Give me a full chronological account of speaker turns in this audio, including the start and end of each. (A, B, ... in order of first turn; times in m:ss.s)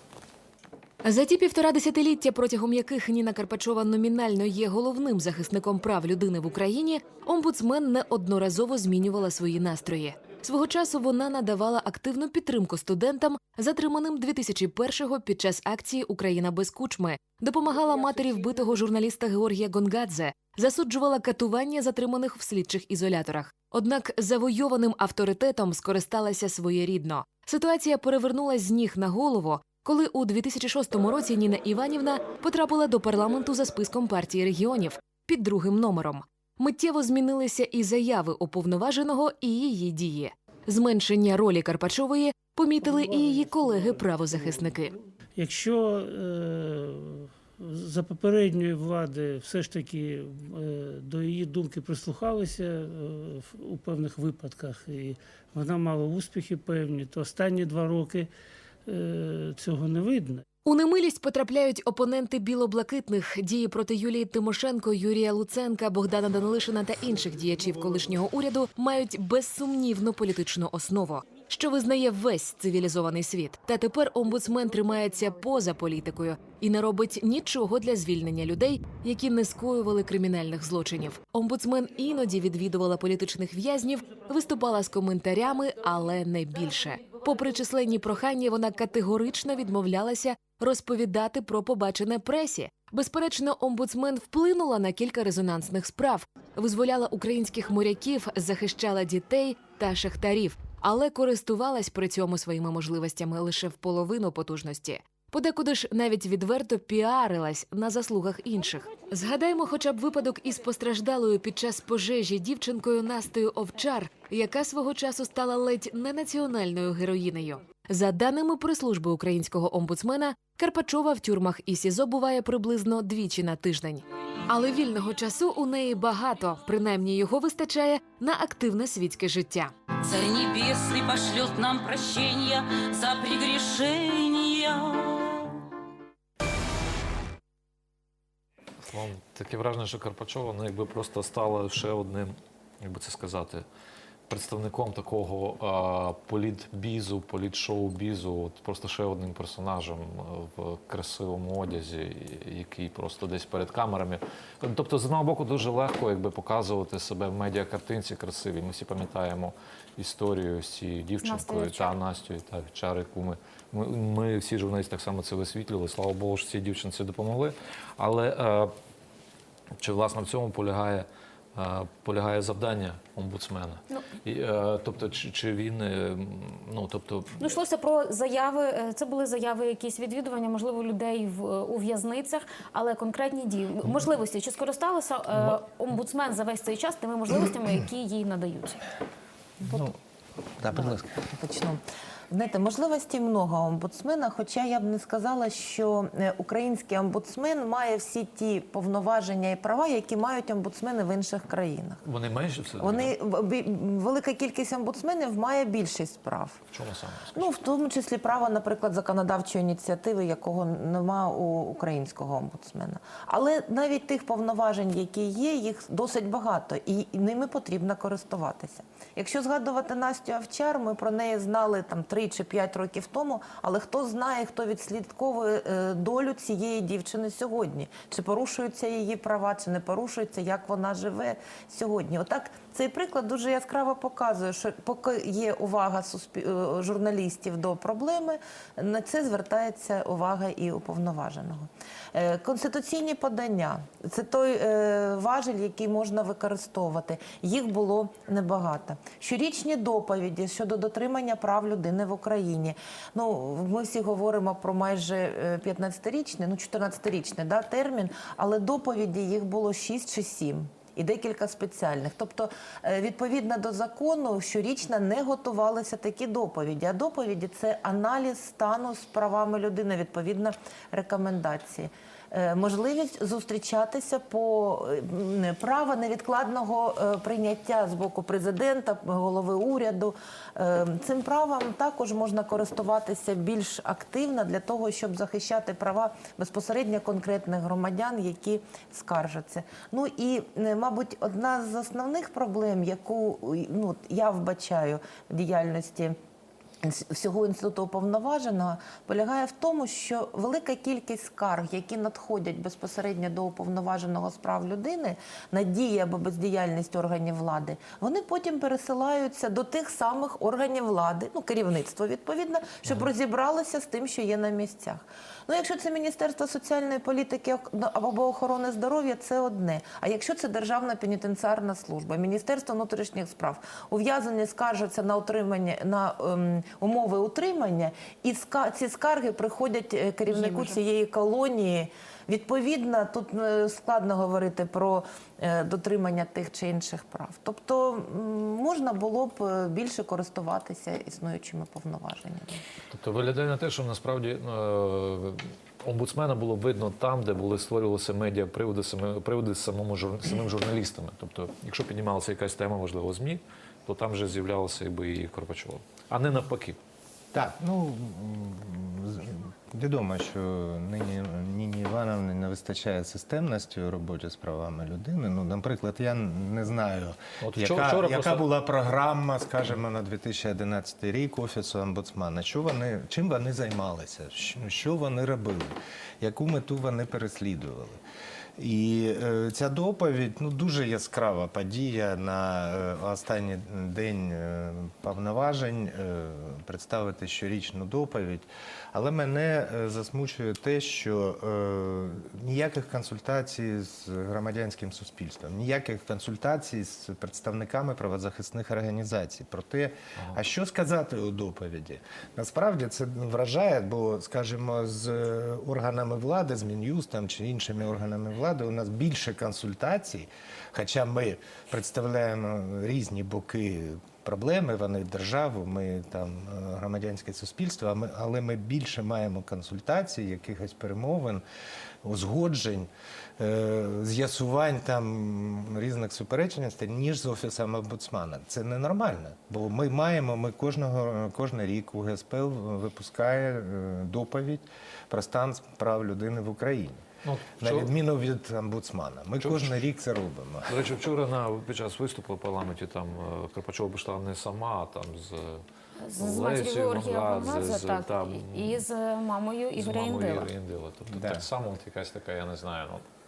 0:01.0-0:44.9 A
0:42.8-0:44.4 B
0:45.3-0:58.3 B
0:58.8-1:00.4 B
1:00.6-2:09.7 A
2:10.0-2:15.6 C
2:18.8-2:23.6 D
2:24.3-2:48.7 D
2:41.2-2:42.0 E
2:49.8-2:57.5 D
2:57.4-3:08.8 E
3:05.3-3:05.6 D
3:09.6-3:09.9 F
3:09.6-3:09.9 G
3:10.6-3:11.1 G
3:10.7-3:22.0 F
3:22.0-3:23.1 D
3:22.8-3:26.6 F
3:26.7-3:27.5 D
3:27.3-4:56.2 F
4:56.8-5:42.6 F
5:42.9-5:56.8 D
5:57.3-6:18.0 G
6:07.4-6:08.4 D
6:18.6-7:01.4 G
7:02.0-7:17.0 G
7:17.2-7:17.9 D
7:17.6-7:20.8 G
7:19.4-7:19.8 D
7:20.6-7:25.6 D
7:26.0-7:30.5 E
7:26.2-7:28.8 D
7:29.8-7:33.0 D
7:31.1-7:31.4 G